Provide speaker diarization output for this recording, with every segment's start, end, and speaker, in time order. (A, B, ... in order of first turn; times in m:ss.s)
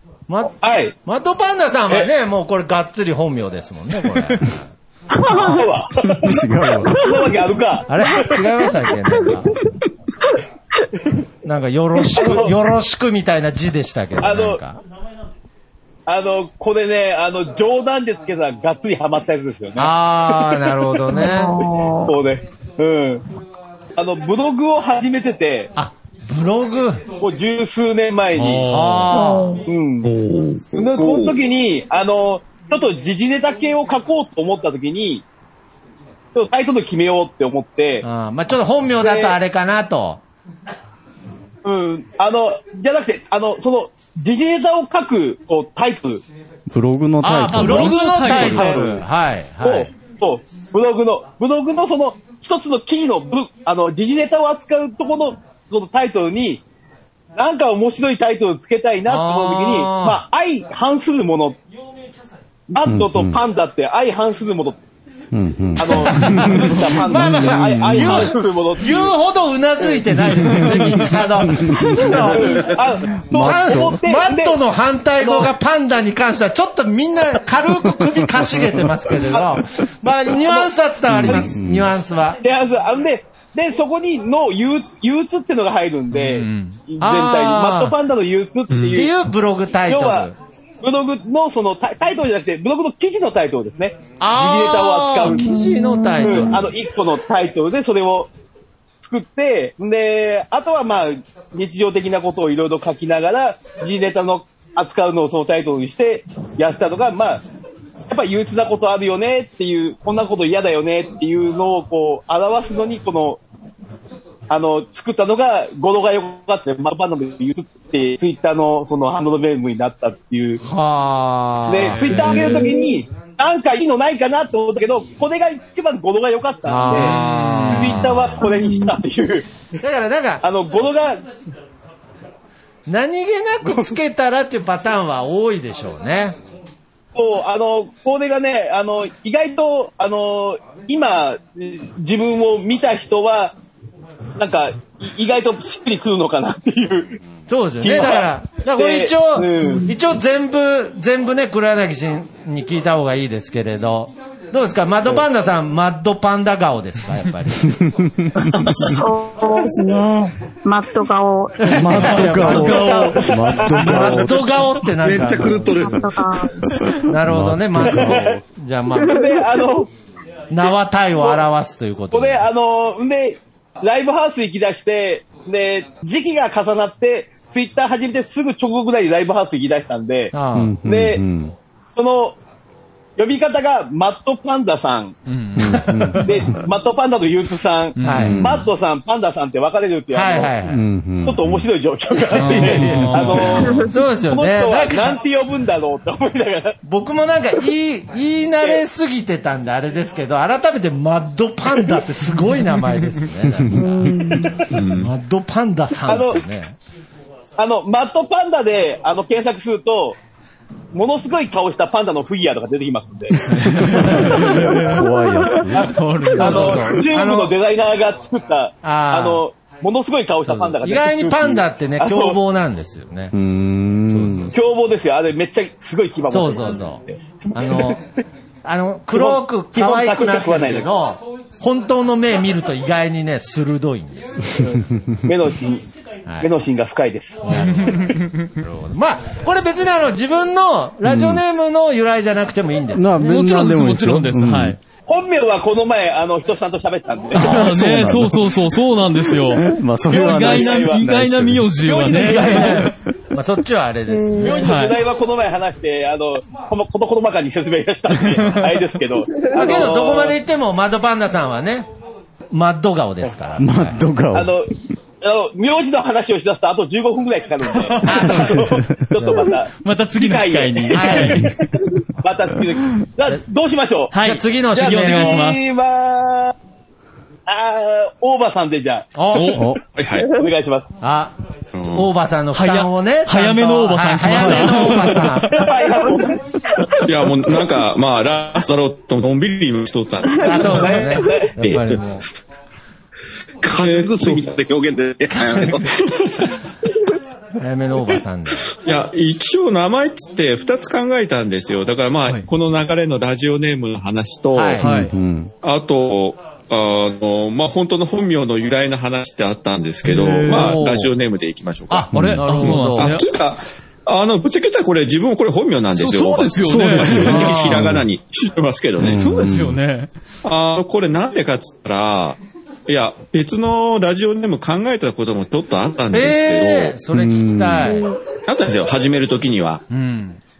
0:00.3-0:04.7 A
0:00.5-0:00.9 B
0:05.2-0:05.6 C
0:05.2-0:06.4 B
0:05.3-0:05.6 A
0:06.1-0:07.0 D
0:06.9-0:07.2 C
0:06.9-0:08.3 B
0:07.9-0:09.5 A
0:11.4-0:14.8 A
0:12.2-0:12.5 B
0:14.2-0:14.6 B
0:16.1-0:23.2 B
0:19.8-0:21.6 A
0:21.1-0:22.1 C
0:24.0-0:25.7 B
0:25.8-0:27.0 A
0:27.2-0:28.7 B
0:28.3-0:29.0 E
0:28.7-0:29.6 A
0:29.1-0:29.6 C
0:29.7-0:30.1 B
0:30.0-0:30.6 F
0:30.7-0:35.2 B
0:36.3-0:38.0 B
0:38.0-0:40.2 A
0:39.0-0:39.4 B
0:41.6-0:46.2 B
0:46.7-0:48.3 D
0:47.2-0:48.8 E
0:47.3-0:49.9 A
0:48.1-0:49.0 B
0:49.6-0:56.6 B
0:57.4-1:01.6 B
0:59.0-1:00.2 A
1:02.7-1:04.8 B
1:02.8-1:03.4 D
1:05.3-1:08.3 D
1:05.8-1:09.1 B
1:05.8-1:22.4 A
1:11.4-1:11.9 D
1:12.1-1:14.6 B
1:12.2-1:12.8 G
1:13.2-1:14.0 D
1:15.2-1:15.5 B
1:18.0-1:18.9 D
1:20.3-1:20.7 B
1:21.1-1:21.9 D
1:22.4-1:29.1 B
1:26.1-1:26.8 E
1:27.0-1:27.9 A
1:28.7-1:29.0 F
1:28.9-1:30.4 A
1:29.8-1:30.3 B
1:30.8-1:35.6 B
1:34.2-1:36.6 A
1:35.2-1:36.6 C
1:36.2-1:38.3 B
1:39.0-1:47.4 B
1:48.1-1:53.4 B
1:54.5-2:00.6 B
2:00.6-2:02.7 A
2:01.7-2:09.5 B
2:01.8-2:02.4 E
2:02.3-2:02.9 C
2:06.6-2:08.5 A
2:06.9-2:08.3 E
2:08.4-2:09.0 C
2:09.8-2:10.4 A
2:10.4-2:11.2 B
2:12.9-2:16.4 A
2:17.1-2:23.6 B
2:24.4-2:27.2 B
2:27.5-2:37.7 A
2:27.8-2:29.9 B
2:29.6-2:29.9 C
2:37.7-2:39.0 D
2:38.9-2:42.2 C
2:41.6-2:45.7 A
2:41.7-2:46.1 D
2:41.8-2:43.4 E
2:45.0-2:46.0 G
2:45.8-2:46.6 C
2:46.6-2:48.4 D
2:46.7-2:49.3 A
2:47.8-2:48.4 B
2:49.0-2:49.3 C
2:49.1-2:49.9 B
2:50.5-2:52.5 A
2:51.2-2:51.4 B
2:52.1-3:01.2 B
3:00.3-3:00.8 A
3:00.5-3:01.5 D
3:01.9-3:02.4 B
3:03.2-3:05.2 B
3:05.3-3:05.6 E
3:05.6-3:06.6 D
3:05.6-3:06.4 A
3:06.2-3:10.5 B
3:08.0-3:08.3 E
3:08.0-3:08.5 A
3:08.2-3:08.7 D
3:10.1-3:10.8 A
3:10.6-3:11.7 D
3:11.2-3:16.8 B
3:12.1-3:15.2 A
3:12.4-3:13.8 E
3:13.7-3:13.9 C
3:16.8-3:24.4 A
3:23.4-3:24.3 D
3:23.7-3:24.6 C
3:24.7-3:25.1 F
3:24.9-3:26.8 A
3:26.0-3:26.4 B
3:27.6-3:30.2 B
3:30.9-3:42.4 B
3:33.5-3:35.0 E
3:33.8-3:35.9 D
3:35.8-3:36.9 E
3:36.4-3:37.5 A
3:38.8-3:39.4 A
3:40.4-3:43.3 A
3:43.3-3:44.5 D
3:44.1-3:44.6 A
3:44.5-3:48.0 B
3:46.3-3:47.0 A
3:47.5-3:48.0 A
3:48.6-3:54.7 A
3:49.1-3:50.9 B
3:54.6-3:55.8 B
3:56.4-3:57.6 B
3:57.4-4:03.4 A
3:57.7-3:58.4 E
4:01.0-4:01.4 D
4:03.0-4:04.8 D
4:03.2-4:04.8 E
4:05.0-4:07.7 B
4:07.3-4:12.8 E
4:07.4-4:11.7 D
4:10.1-4:11.1 B
4:11.8-4:12.8 B
4:12.0-4:14.6 A
4:14.1-4:14.7 C
4:14.3-4:20.4 B
4:14.6-4:15.0 E
4:18.1-4:18.6 E
4:19.4-4:19.6 C
4:19.5-4:21.9 A
4:22.5-4:24.0 A
4:23.6-4:24.5 D
4:24.3-4:31.6 B
4:28.0-4:28.6 A
4:28.4-4:28.7 D
4:29.2-4:29.5 A
4:29.8-4:31.5 E
4:30.9-4:31.5 A
4:32.2-4:34.2 B
4:34.1-4:35.6 E
4:34.2-4:35.5 A
4:34.7-4:36.5 B
4:37.4-4:39.1 B
4:39.2-4:39.6 A
4:39.3-4:39.7 E
4:39.5-4:39.8 D
4:40.0-4:40.3 F
4:40.3-4:40.9 B
4:41.0-4:41.3 A
4:41.7-4:42.1 F
4:41.8-4:46.3 A
4:42.5-4:45.7 E
4:44.4-4:44.6 D
4:45.5-4:46.4 B
4:47.0-4:51.0 F
4:50.4-4:51.6 B
4:50.4-4:52.2 A
4:53.6-4:55.9 G
4:53.8-4:54.5 F
4:55.3-4:55.9 A
4:57.6-4:58.7 A
4:58.8-5:04.9 F
5:04.5-5:04.8 A
5:04.8-5:05.1 E
5:04.9-5:05.5 D
5:05.6-5:12.1 F
5:10.0-5:10.8 E
5:10.5-5:11.1 A
5:11.9-5:13.1 A
5:12.1-5:12.4 D
5:12.1-5:13.2 E
5:12.6-5:19.2 F
5:15.9-5:17.6 E
5:16.6-5:18.0 D
5:17.2-5:17.9 A
5:19.0-5:19.8 D
5:19.1-5:20.1 E
5:20.4-5:27.0 F
5:26.1-5:28.1 A
5:27.1-5:28.0 D
5:28.5-5:29.8 F
5:29.9-5:30.4 A